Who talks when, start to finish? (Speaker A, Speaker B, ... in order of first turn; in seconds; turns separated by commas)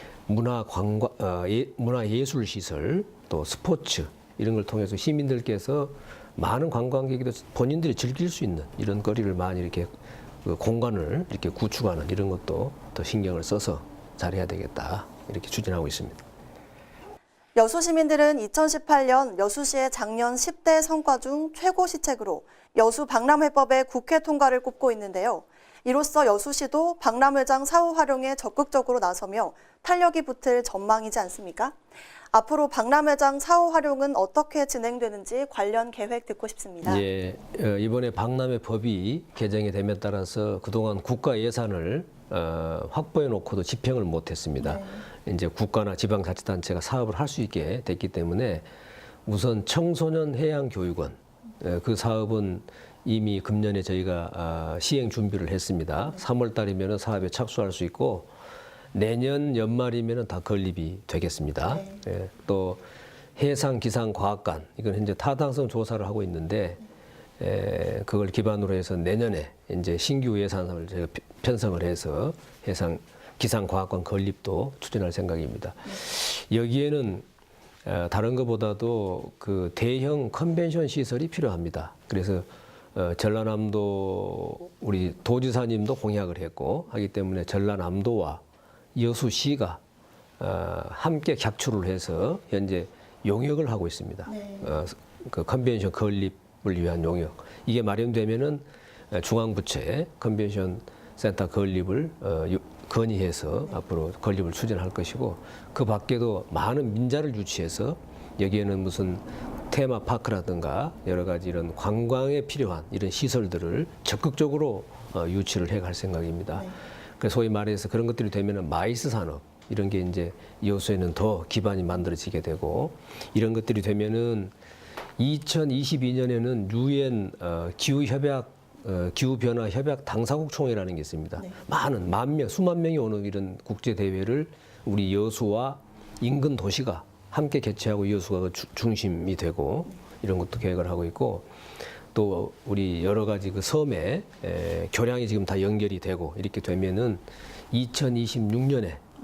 Speaker A: 0.3-9.9, Speaker A: 10.4-16.2, Speaker B: 17.6-31.8, Speaker B: 32.3-37.0, Speaker A: 36.8-48.7, Speaker B: 44.6-45.0, Speaker A: 49.2-58.3, Speaker A: 58.9-62.8, Speaker A: 63.4-66.8, Speaker A: 67.4-77.2, Speaker A: 77.8-88.4, Speaker A: 88.9-89.8, Speaker A: 90.4-124.5, Speaker B: 94.3-94.6, Speaker A: 125.2-141.5, Speaker A: 142.1-149.0